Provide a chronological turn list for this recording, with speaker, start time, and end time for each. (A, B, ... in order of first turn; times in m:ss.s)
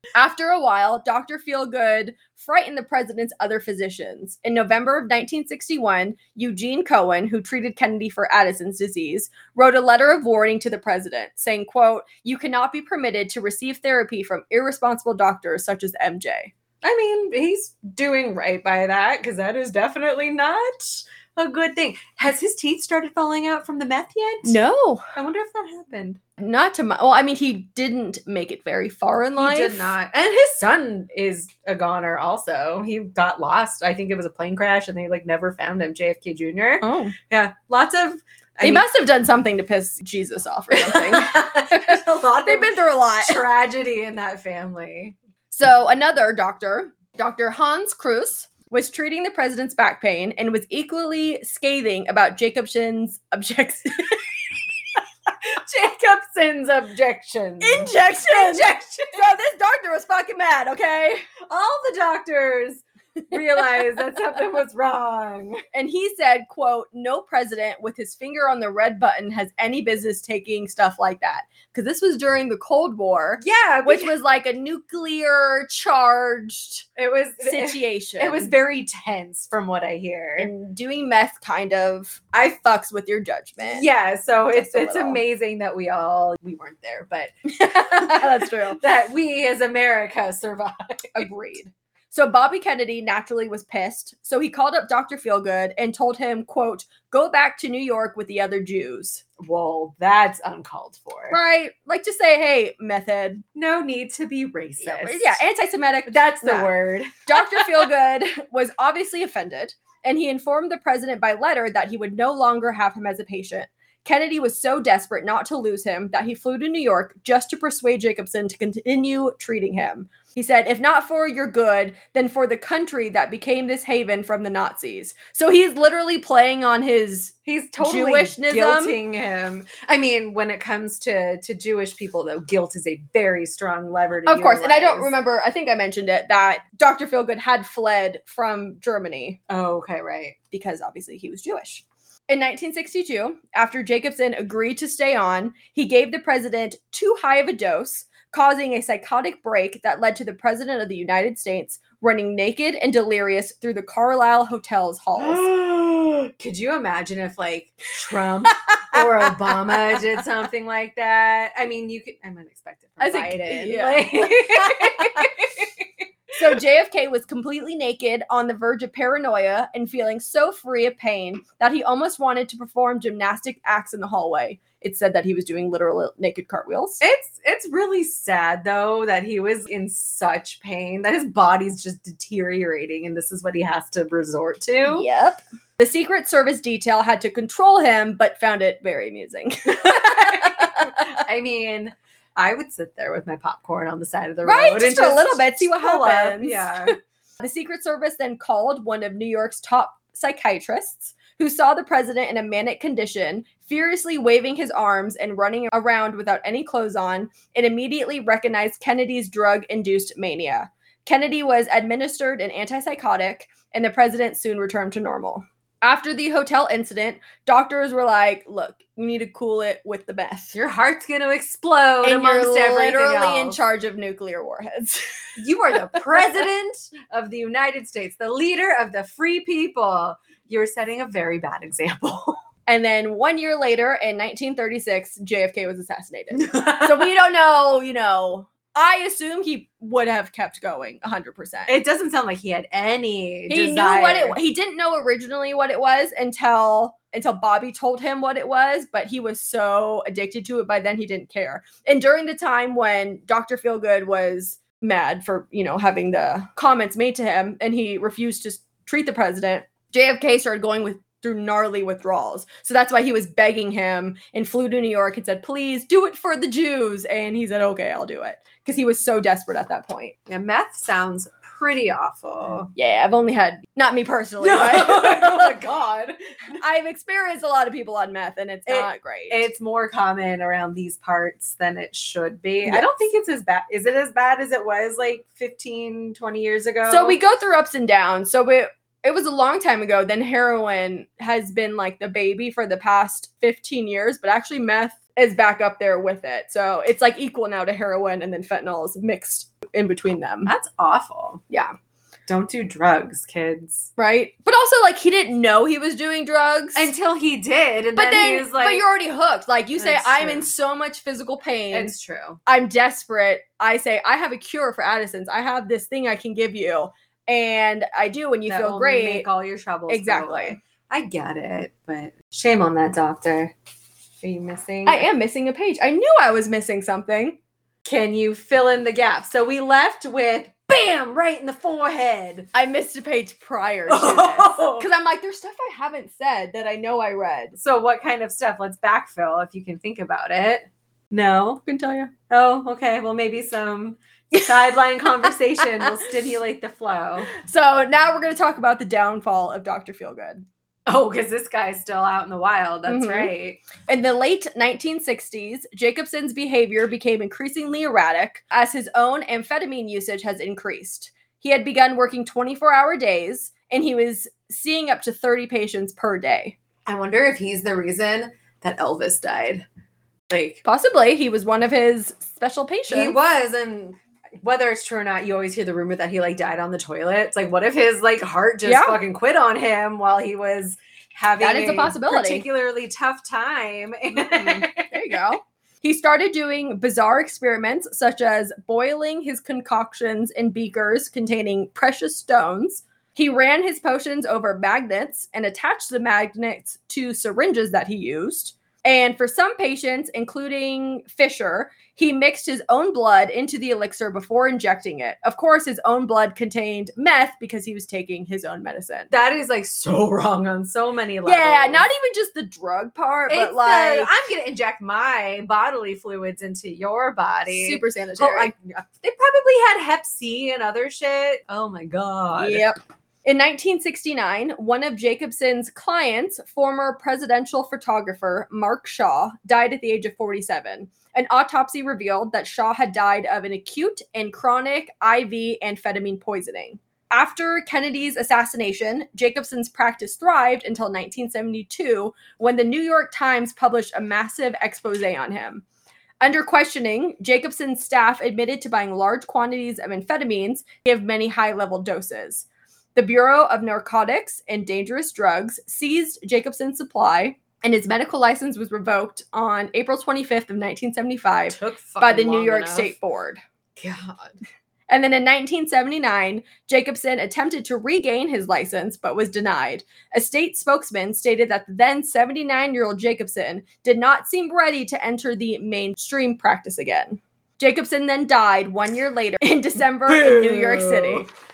0:00.1-0:16.5 A
0:16.8-0:24.6 B
0:24.4-0:25.0 A
0:25.1-0:26.2 B
0:26.4-0:29.9 A
0:29.4-0:38.8 B
0:36.8-0:37.1 A
0:38.6-0:43.4 A
0:40.7-0:45.2 B
0:45.5-0:54.3 A
0:55.4-0:59.3 B
0:57.6-1:01.3 A
1:01.4-1:05.6 B
1:05.7-1:16.8 A
1:13.4-1:14.1 B
1:17.0-1:20.5 B
1:17.4-1:18.5 A
1:20.4-1:23.8 A
1:23.6-1:31.2 B
1:24.5-1:25.2 A
1:27.6-1:28.8 A
1:31.1-1:39.2 A
1:39.4-1:41.4 B
1:41.3-1:43.4 A
1:43.6-1:45.4 B
1:44.8-1:46.7 A
1:46.1-1:47.8 B
1:47.2-2:09.0 A
2:07.4-2:15.1 B
2:14.3-2:19.4 A
2:19.5-2:20.4 B
2:20.5-2:35.4 A
2:35.2-2:45.8 B
2:38.9-2:40.0 A
2:43.0-2:45.3 A
2:46.4-2:57.0 A
2:57.0-3:05.0 B
3:04.8-3:11.0 A
3:09.9-3:16.9 B
3:14.4-3:40.5 A
3:40.5-3:43.6 B
3:42.0-3:45.2 A
3:45.4-3:52.4 B
3:52.7-4:01.7 A
3:56.4-3:57.0 B
4:01.7-4:04.4 B
4:03.5-4:30.2 A
4:30.3-4:32.7 B
4:32.8-4:35.6 A
4:34.4-4:36.2 B
4:36.6-4:39.4 A
4:38.7-4:47.2 B
4:46.9-5:00.5 A
5:00.4-5:01.4 B
5:02.3-5:03.9 B
5:04.0-5:06.9 A
5:06.7-5:08.8 B
5:08.0-5:11.9 A
5:09.8-5:10.5 B
5:11.7-5:12.4 B
5:12.4-5:19.2 A
5:18.5-5:23.5 B
5:19.9-5:20.6 A
5:24.2-5:25.0 B
5:24.8-5:27.4 A
5:27.8-5:32.5 B
5:32.5-5:37.6 A
5:33.9-5:34.9 B
5:37.6-5:41.6 B
5:41.6-5:42.1 A
5:42.3-5:47.3 B
5:47.3-5:50.4 A
5:50.9-5:53.6 B
5:52.9-5:53.3 A
5:53.9-6:06.6 A
6:06.8-6:09.6 B
6:10.3-6:10.6 B
6:10.6-6:13.2 A
6:12.9-6:24.9 B
6:18.6-6:19.0 A
6:21.4-6:22.4 A
6:24.2-6:49.1 A
6:49.1-6:51.9 B
6:51.2-6:54.1 A
6:53.3-7:02.7 B
6:57.5-6:58.5 A
7:02.4-7:25.6 A
7:26.2-7:43.4 A
7:41.5-7:42.9 B
7:43.8-7:44.4 B
7:44.9-8:01.3 A
8:00.1-8:01.2 B